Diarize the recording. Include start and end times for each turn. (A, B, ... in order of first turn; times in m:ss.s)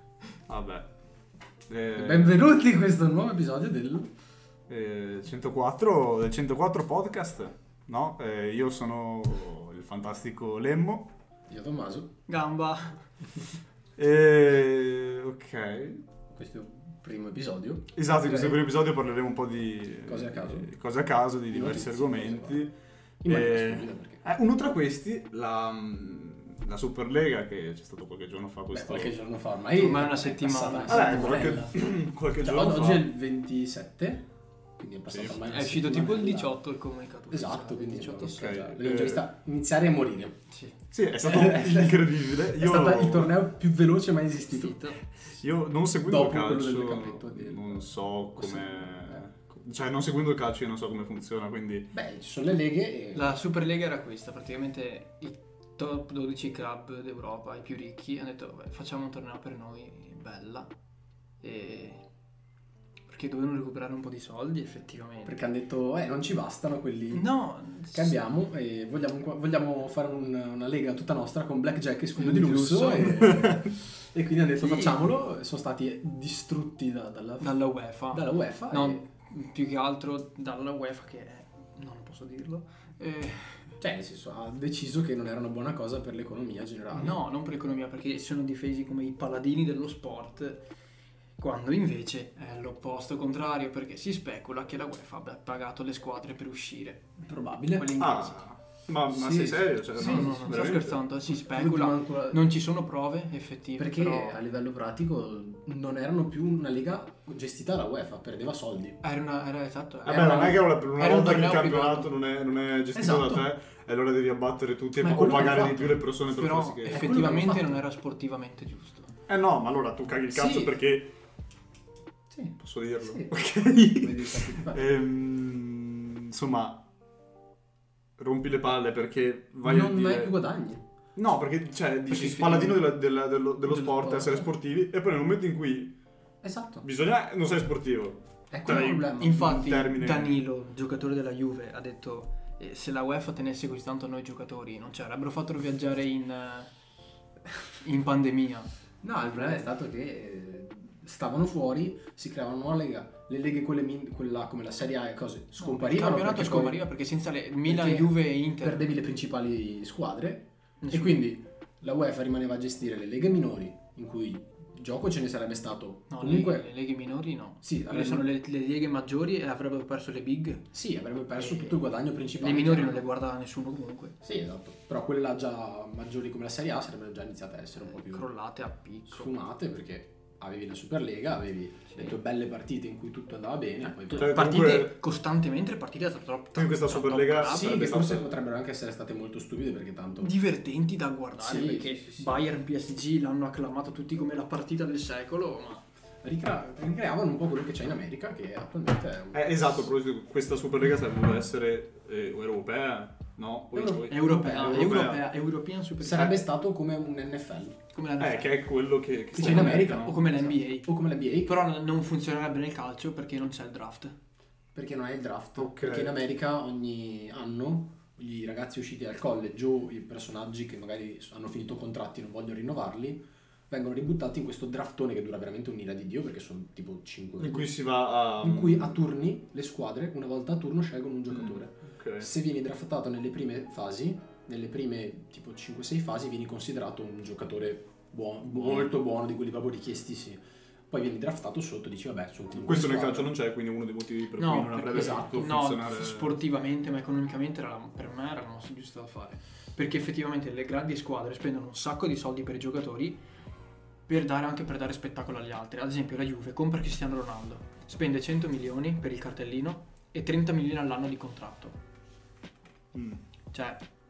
0:00.5-0:00.9 A
0:01.7-0:02.4 A
0:01.9-0:04.1 B
0:04.7-0:11.1 A
0:11.5-0:12.1 B
0:12.3-0:13.0 C
0:14.0-0:16.0 A
0:16.3-0:18.6 B
0:17.9-0:22.7 A
0:20.0-0:20.7 B
0:21.5-0:22.6 B
0:23.2-0:24.2 B
0:23.3-0:29.2 A
0:28.7-0:31.7 B
0:29.7-0:31.7 C
0:30.9-0:33.1 A
0:32.4-0:34.3 B
0:34.8-0:36.5 B
0:35.1-0:35.4 A
0:35.4-0:38.5 C
0:37.3-0:40.4 B
0:38.3-0:39.2 A
0:40.9-0:43.4 A
0:41.2-0:45.0 B
0:44.5-0:45.0 C
0:45.3-0:51.9 A
0:46.0-0:49.2 B
0:51.9-0:53.3 B
0:53.1-1:00.7 C
1:01.4-1:02.0 C
1:03.1-1:05.3 C
1:05.2-1:07.3 B
1:07.1-1:08.2 C
1:07.9-1:17.6 B
1:12.2-1:13.4 C
1:13.2-1:13.6 A
1:14.6-1:15.0 C
1:17.4-1:23.8 C
1:18.1-1:19.0 B
1:23.8-1:27.2 B
1:26.9-1:30.6 C
1:31.4-1:37.2 C
1:37.2-1:38.4 B
1:37.7-1:38.4 C
1:38.0-1:41.0 A
1:39.1-1:42.5 B
1:40.0-1:44.4 C
1:43.8-1:49.0 B
1:49.0-1:52.1 C
1:50.0-1:57.4 A
1:52.9-1:53.5 B
1:55.0-1:56.0 B
1:56.3-1:59.1 C
1:56.9-1:57.8 B
1:59.3-2:01.1 A
2:00.3-2:00.8 B
2:02.3-2:04.9 B
2:02.6-2:06.8 A
2:08.2-2:10.3 A
2:09.6-2:10.8 B
2:11.2-2:15.9 A
2:12.1-2:12.8 B
2:12.4-2:12.6 C
2:13.7-2:14.4 B
2:16.4-2:16.8 B
2:16.8-2:20.3 A
2:18.5-2:19.6 B
2:18.7-2:26.7 C
2:27.8-2:28.7 C
2:29.0-2:36.8 B
2:35.6-2:39.0 C
2:37.6-2:46.7 B
2:40.8-2:41.3 C
2:46.1-2:50.7 C
2:47.6-2:48.3 B
2:50.7-2:53.0 B
2:51.4-2:51.9 C
2:52.4-2:54.2 C
2:54.2-2:58.2 B
2:57.8-2:59.3 C
2:59.1-3:04.4 B
3:04.1-3:05.0 A
3:04.2-3:07.9 C
3:06.5-3:08.4 A
3:07.4-3:10.3 B
3:10.2-3:15.8 C
3:11.4-3:12.5 B
3:16.2-3:19.6 B
3:19.3-3:25.2 A
3:23.7-3:25.1 B
3:24.1-3:26.5 C
3:26.0-3:27.8 B
3:27.9-3:28.6 C
3:28.2-3:30.3 A
3:29.3-3:31.6 B
3:29.4-3:30.9 C
3:31.4-3:34.1 C
3:34.7-3:47.7 B
3:35.6-3:36.1 A
3:47.4-3:49.0 A
3:48.4-4:03.3 B
3:51.3-3:52.3 A
3:58.5-3:58.9 A
4:02.5-4:06.4 A
4:04.4-4:13.2 C
4:04.9-4:05.4 B
4:14.1-4:21.8 C
4:22.9-4:23.2 A
4:23.5-4:23.8 C